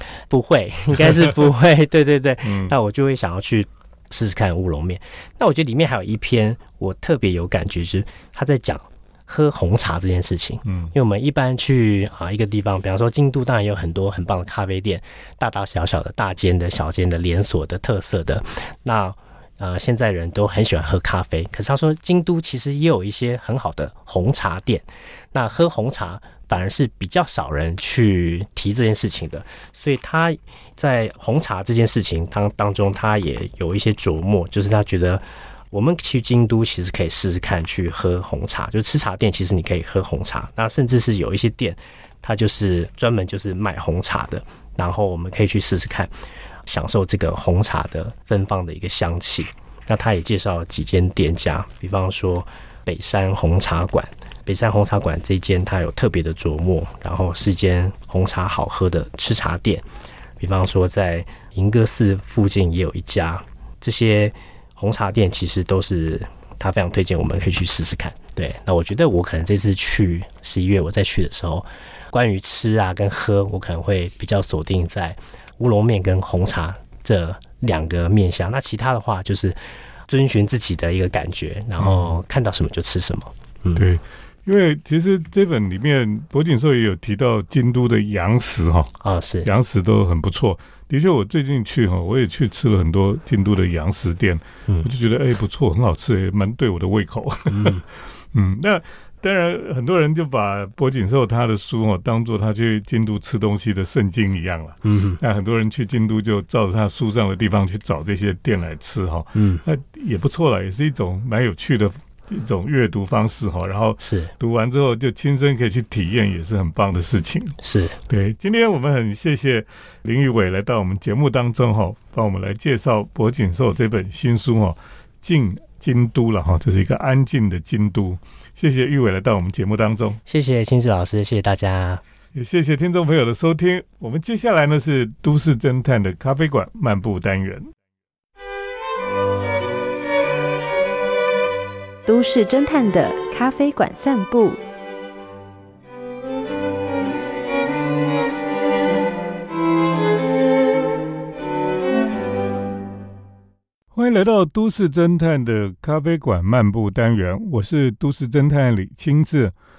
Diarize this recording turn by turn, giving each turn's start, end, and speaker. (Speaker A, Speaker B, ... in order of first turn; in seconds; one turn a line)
Speaker A: 0.3-46.1
Speaker B: 2.4-2.7
Speaker B: 10.6-10.9
Speaker A: 46.6-59.8
Speaker A: 60.4-83.8
Speaker B: 81.8-82.1
Speaker B: 83.7-88.9
Speaker A: 89.0-89.5
Speaker B: 89.4-130.2
Speaker A: 97.5-97.8
Speaker A: 104.8-105.2
Speaker A: 109.3-109.6
Speaker A: 114.0-114.3
Speaker A: 117.6-118.0
Speaker A: 130.3-132.0
Speaker B: 132.3-137.7
Speaker C: 142.1-144.6
Speaker B: 153.9-159.5